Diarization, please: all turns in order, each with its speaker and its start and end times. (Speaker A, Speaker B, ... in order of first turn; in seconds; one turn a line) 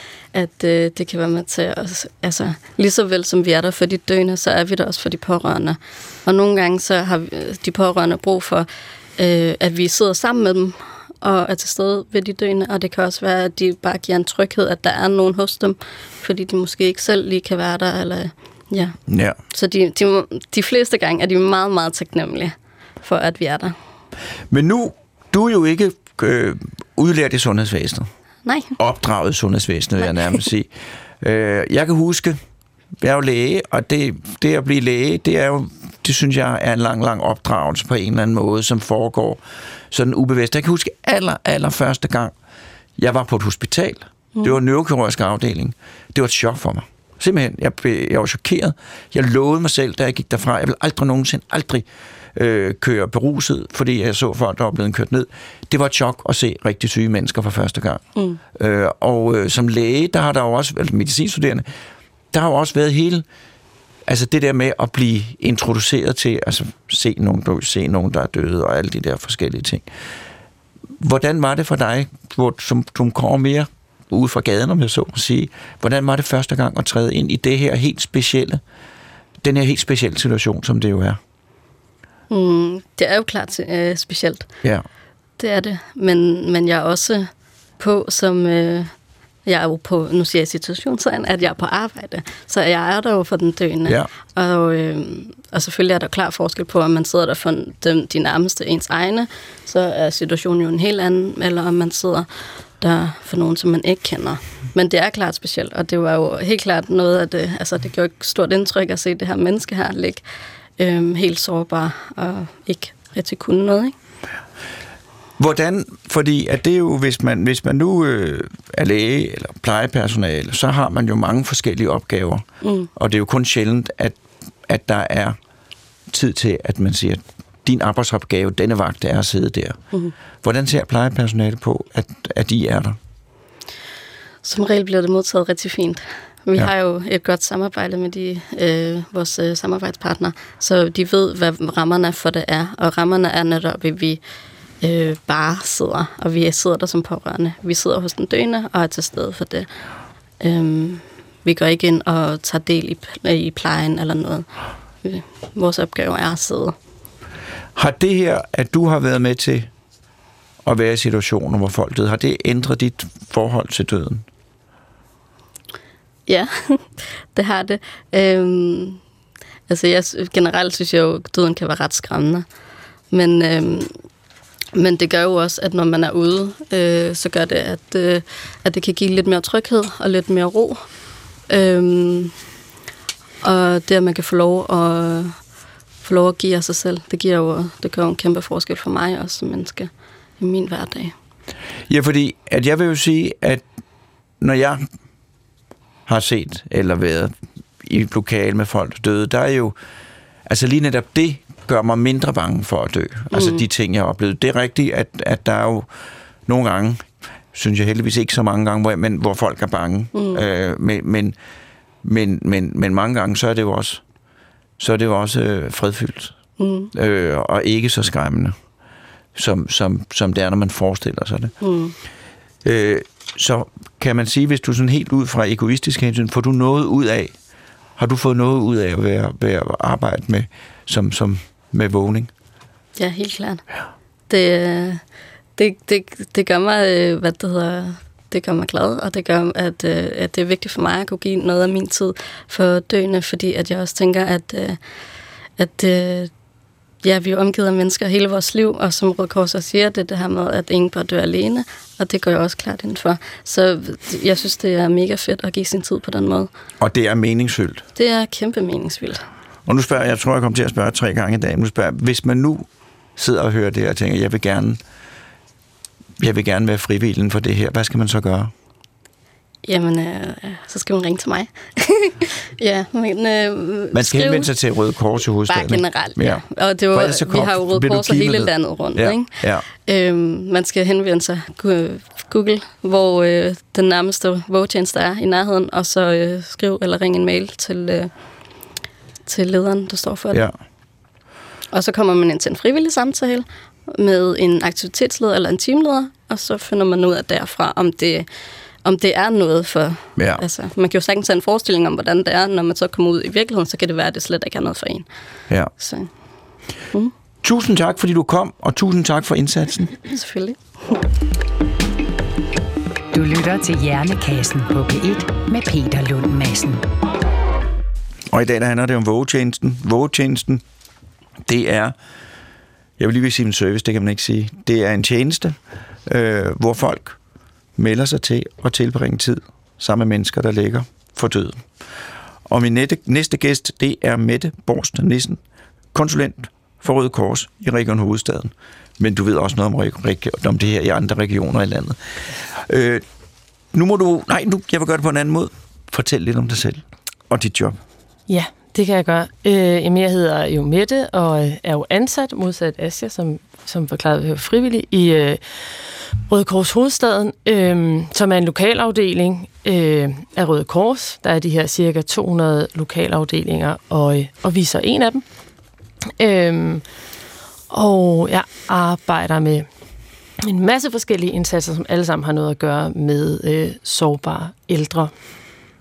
Speaker A: 0.3-19.0
Speaker B: 19.1-19.4
Speaker A: 19.5-23.7
Speaker B: 24.5-28.1
Speaker A: 28.4-28.7
Speaker B: 28.8-30.7
Speaker B: 31.2-32.4
Speaker B: 33.0-42.3
Speaker B: 43.0-58.0
Speaker B: 58.5-61.6
Speaker B: 62.3-63.2
Speaker B: 64.0-69.8
Speaker B: 71.0-78.6
Speaker B: 79.4-81.2
Speaker A: 82.3-84.5
Speaker A: 85.4-88.9
Speaker A: 89.5-102.3
Speaker A: 102.8-110.2
Speaker A: 110.8-113.9
Speaker B: 115.4-122.4
Speaker A: 122.6-122.9
Speaker B: 123.0-125.4
Speaker B: 126.1-129.8
Speaker B: 130.4-133.0
Speaker A: 134.4-144.2
Speaker A: 144.8-149.7
Speaker A: 150.4-154.5
Speaker A: 155.0-156.7
Speaker B: 157.8-159.7
Speaker B: 160.6-164.2
Speaker A: 166.3-169.0
Speaker A: 169.7-172.4
Speaker A: 173.1-173.9
Speaker A: 174.7-180.8
Speaker A: 181.5-182.3
Speaker A: 183.4-185.4
Speaker A: 186.0-191.1
Speaker B: 191.9-193.6
Speaker B: 194.4-194.8
Speaker B: 196.1-199.7
Speaker B: 200.4-205.9
Speaker A: 203.3-203.6
Speaker B: 206.4-211.3
Speaker A: 210.1-210.4
Speaker B: 212.0-214.0
Speaker B: 214.8-216.3
Speaker A: 216.6-216.9
Speaker B: 216.9-218.5
Speaker B: 219.3-221.5
Speaker A: 221.6-221.9
Speaker B: 222.6-227.3
Speaker B: 228.0-232.3
Speaker A: 232.9-233.6
Speaker A: 234.3-235.0
Speaker A: 235.6-244.8
Speaker A: 245.6-246.3
Speaker A: 247.0-256.5
Speaker B: 256.8-257.8
Speaker A: 257.9-259.2
Speaker B: 259.7-264.8
Speaker B: 266.2-268.5
Speaker A: 269.6-274.5
Speaker B: 273.9-279.6
Speaker A: 275.5-288.1
Speaker A: 289.2-290.5
Speaker A: 291.7-298.3
Speaker A: 298.8-305.1
Speaker B: 300.2-300.4
Speaker A: 305.8-306.1
Speaker B: 307.4-309.9
Speaker A: 310.0-311.0
Speaker C: 313.1-316.8
Speaker B: 318.3-320.6
Speaker B: 321.4-321.9
Speaker B: 323.0-327.2
Speaker B: 327.8-331.7
Speaker B: 332.5-335.4
Speaker B: 335.9-343.0
Speaker B: 343.7-347.8
Speaker D: 348.3-365.2
Speaker D: 366.2-366.8
Speaker D: 367.7-369.6
Speaker D: 370.4-375.1